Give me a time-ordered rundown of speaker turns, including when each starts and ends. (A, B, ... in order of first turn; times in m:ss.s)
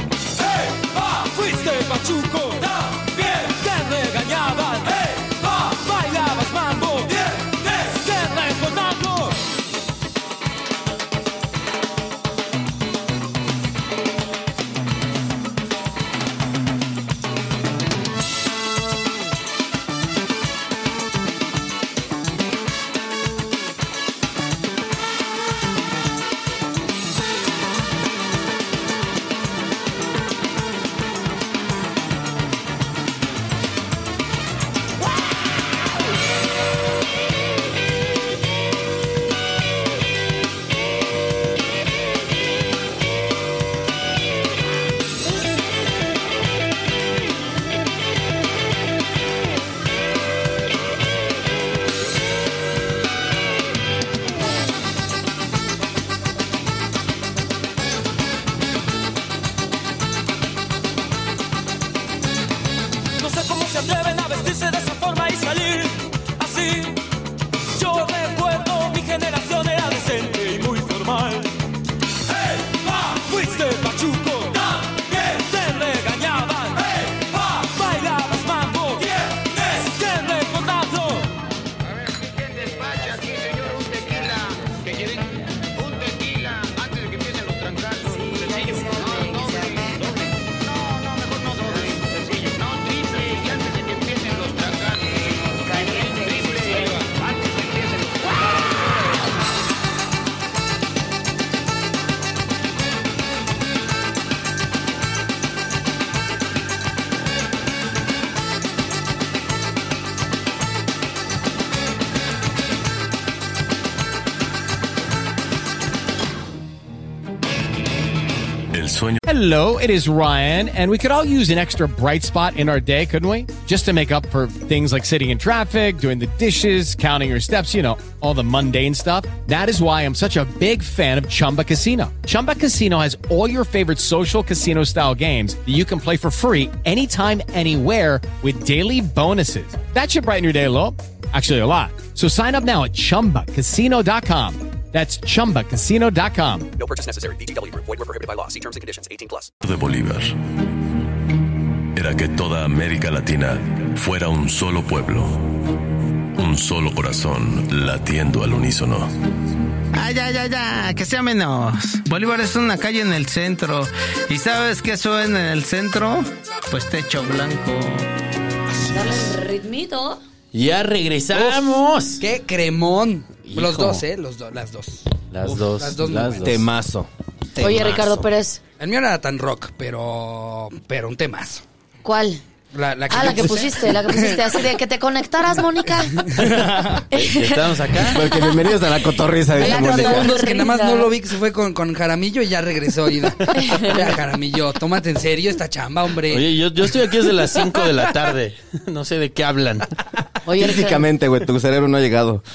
0:00.7-0:09.4 A
1:03.2-1:07.0 A
1:07.7-1:11.5 A
1:12.7-1:21.3 A
1:28.0-1:30.0 B
1:35.7-1:37.0 B
1:58.7-1:59.2 C
1:59.2-2:26.7 D
2:26.8-2:29.5 E
2:29.6-2:30.4 C
2:31.9-2:35.5 C
2:36.3-2:39.1 C
2:39.9-2:48.1 F
2:48.9-2:50.2 B
2:50.5-2:52.2 G
2:51.3-2:56.6 H
2:53.4-2:54.0 G
2:55.3-2:56.6 G
2:56.4-2:57.1 I
2:57.6-2:58.6 B
2:57.6-2:57.9 I
2:58.8-3:01.6 H
3:02.0-3:02.4 B
3:02.7-3:04.6 H
3:03.1-3:06.5 B
3:06.2-3:07.0 H
3:07.1-3:08.8 B
3:07.1-3:08.2 G
3:08.0-3:10.4 I
3:09.6-3:11.1 B
3:09.6-3:16.5 H
3:13.5-3:14.0 B
3:16.3-3:19.9 G
3:20.4-3:21.1 B
3:20.5-3:22.4 I